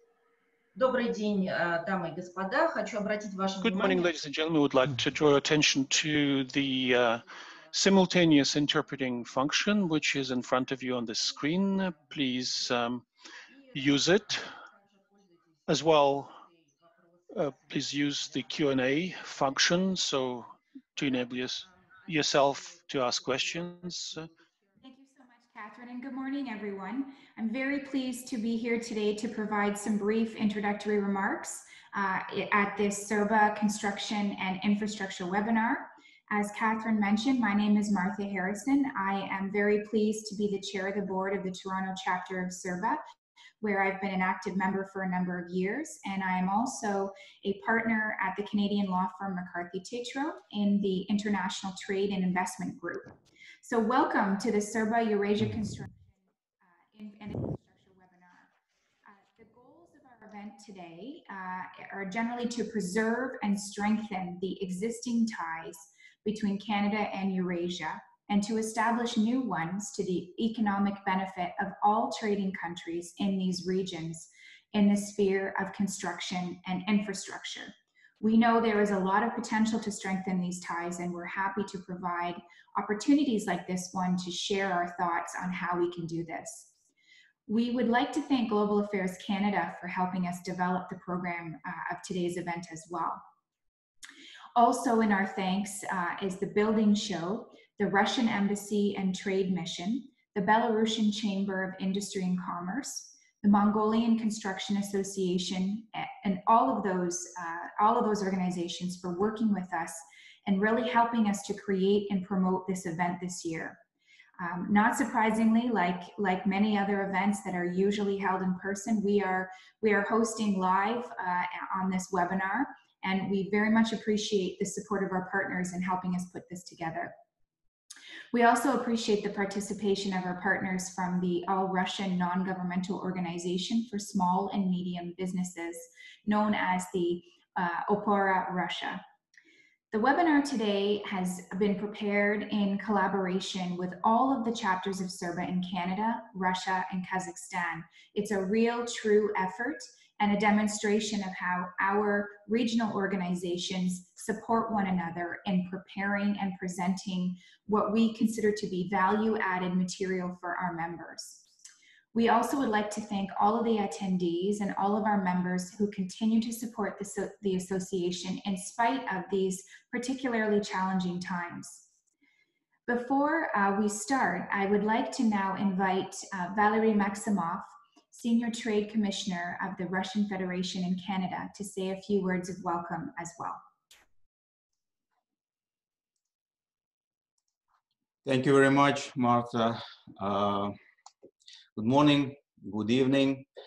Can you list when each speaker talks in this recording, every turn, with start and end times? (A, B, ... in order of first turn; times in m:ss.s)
0:00.7-0:04.1 A
0:03.6-0:13.0 B
0:13.5-0:13.8 A
0:13.7-0:14.5 B
0:14.7-0:15.3 A
0:15.7-0:16.4 B
0:17.3-0:24.3 B
0:24.8-0:43.0 C
0:43.6-0:56.1 C
0:56.9-0:58.5 C
0:59.1-1:26.7 C
1:27.5-1:33.2 C
1:34.6-1:53.8 C
1:54.4-2:07.1 C
2:08.3-2:19.0 C
2:19.9-2:41.5 C
2:42.1-2:51.9 C
2:52.9-3:03.6 C
3:08.2-3:10.8 D
3:11.8-3:13.5 D